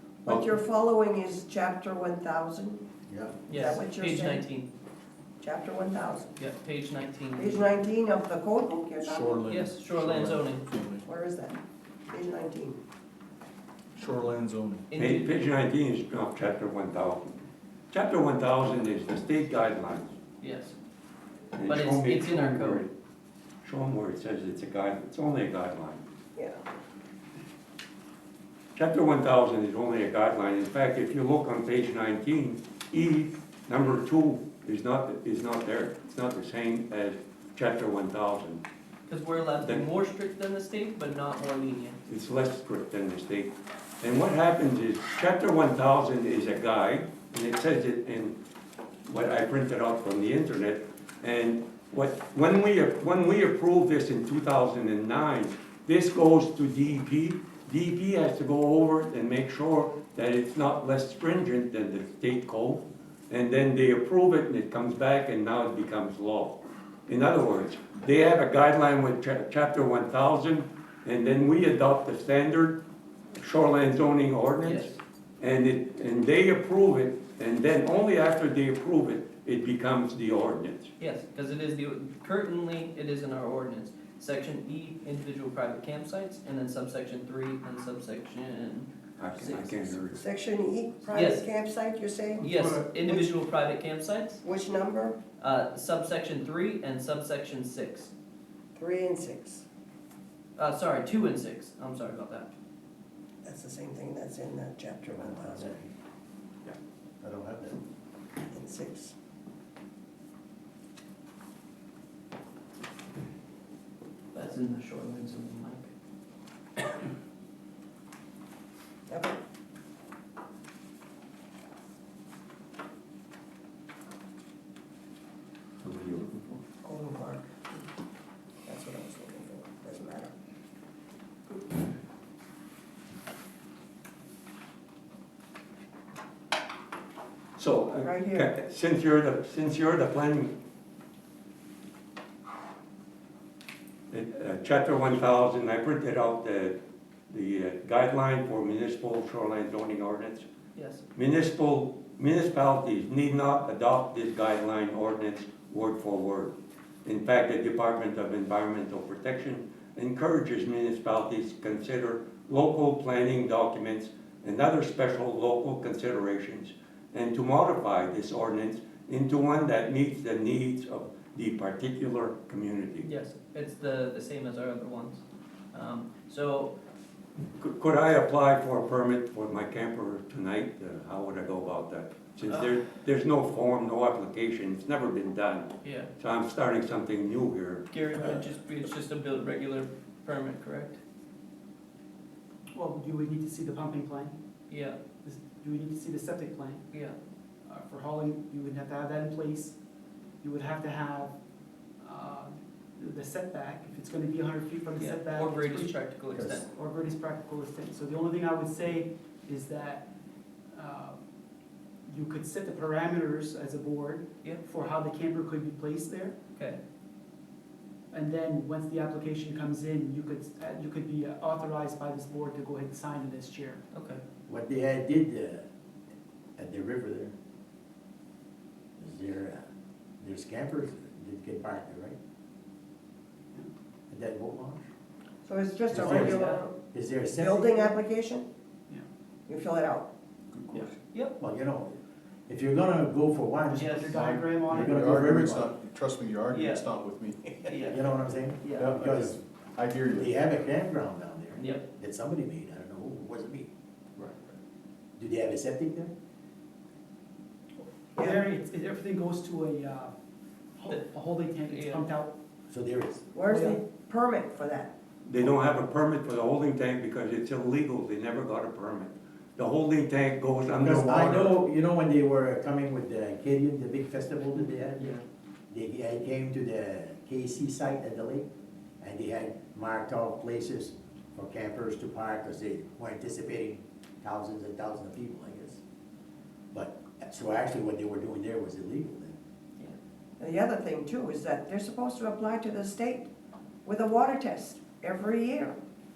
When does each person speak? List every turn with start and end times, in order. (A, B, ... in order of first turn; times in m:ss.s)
0:00.2-0:02.8 A
0:03.1-0:03.4 B
0:03.5-0:04.7 C
0:03.5-0:04.4 A
0:05.4-0:06.3 A
0:06.4-0:07.6 C
0:07.4-0:09.5 A
0:09.0-0:11.0 D
0:09.5-0:10.6 C
0:11.0-0:12.8 A
0:13.9-0:14.8 D
0:14.9-0:15.4 C
0:14.9-0:20.1 E
0:20.4-0:20.7 C
0:21.5-0:22.9 E
0:21.6-0:22.8 C
0:23.6-0:26.0 E
0:26.4-0:26.6 A
0:28.8-0:38.6 E
0:39.0-0:42.0 C
0:42.1-0:48.4 E
0:49.0-1:12.8 E
1:13.3-1:20.9 E
1:14.6-1:15.0 C
1:21.0-1:29.9 C
1:29.2-1:30.2 E
1:30.1-1:33.3 A
1:31.1-1:31.4 C
1:32.4-1:34.4 C
1:34.4-1:35.2 A
1:35.4-1:38.1 C
1:38.7-1:39.6 A
1:40.6-1:42.5 C
1:43.4-1:45.7 A
1:45.1-1:45.9 B
1:46.6-1:47.8 B
1:48.4-1:49.1 A
1:54.3-1:55.9 C
1:59.1-1:59.4 A
2:05.8-2:06.6 E
2:06.8-2:07.8 A
2:08.6-2:10.3 A
2:17.6-2:20.5 E
2:18.0-2:18.5 A
2:24.1-2:26.8 E
2:27.3-2:30.4 E
2:30.8-2:31.0 C
2:31.1-2:36.5 E
2:37.0-2:53.1 E
2:53.0-2:56.7 C
2:57.6-3:08.4 E
3:02.4-3:02.8 C
3:05.8-3:06.1 C
3:07.9-3:11.0 C
3:12.7-3:14.4 F
3:14.7-3:15.0 C
3:15.2-3:16.8 F
3:16.9-3:17.2 C
3:17.7-3:19.8 F
3:20.4-3:21.3 F
3:22.0-3:26.0 F
3:25.0-3:26.7 C
3:26.3-3:26.6 B
3:26.6-3:30.0 F
3:30.7-3:31.2 F
3:32.1-3:36.3 F
3:36.5-3:36.8 C
3:38.1-3:43.8 F
3:43.9-3:44.2 C
3:44.5-3:45.6 B
3:46.6-3:47.3 B
3:49.0-3:49.6 B
3:50.2-3:52.2 B
3:54.1-3:54.8 B
3:55.4-3:56.8 A
3:55.9-3:57.7 B
3:56.1-3:56.6 C
3:57.4-3:58.4 A
3:59.5-4:00.1 A
4:00.5-4:00.9 D
4:00.7-4:01.3 C
4:01.4-4:02.0 B
4:02.5-4:05.7 B
4:03.7-4:04.2 C
4:03.8-4:05.2 F
4:04.7-4:07.7 D
4:06.5-4:06.9 C
4:07.6-4:08.9 C
4:07.8-4:09.4 B
4:08.8-4:10.3 D
4:10.1-4:13.7 B
4:11.6-4:11.8 C
4:14.2-4:14.5 D
4:15.2-4:16.1 B
4:18.2-4:18.4 A
4:18.2-4:20.1 F
4:20.8-4:22.3 F
4:21.6-4:22.1 C
4:22.7-4:23.2 B
4:23.3-4:24.9 A
4:23.5-4:23.8 F
4:25.2-4:31.5 E
4:30.8-4:35.2 B
4:35.0-4:35.2 C
4:35.7-4:38.5 B
4:39.0-4:45.8 B
4:46.7-4:49.4 B
4:50.4-4:53.3 A
4:53.8-4:55.8 A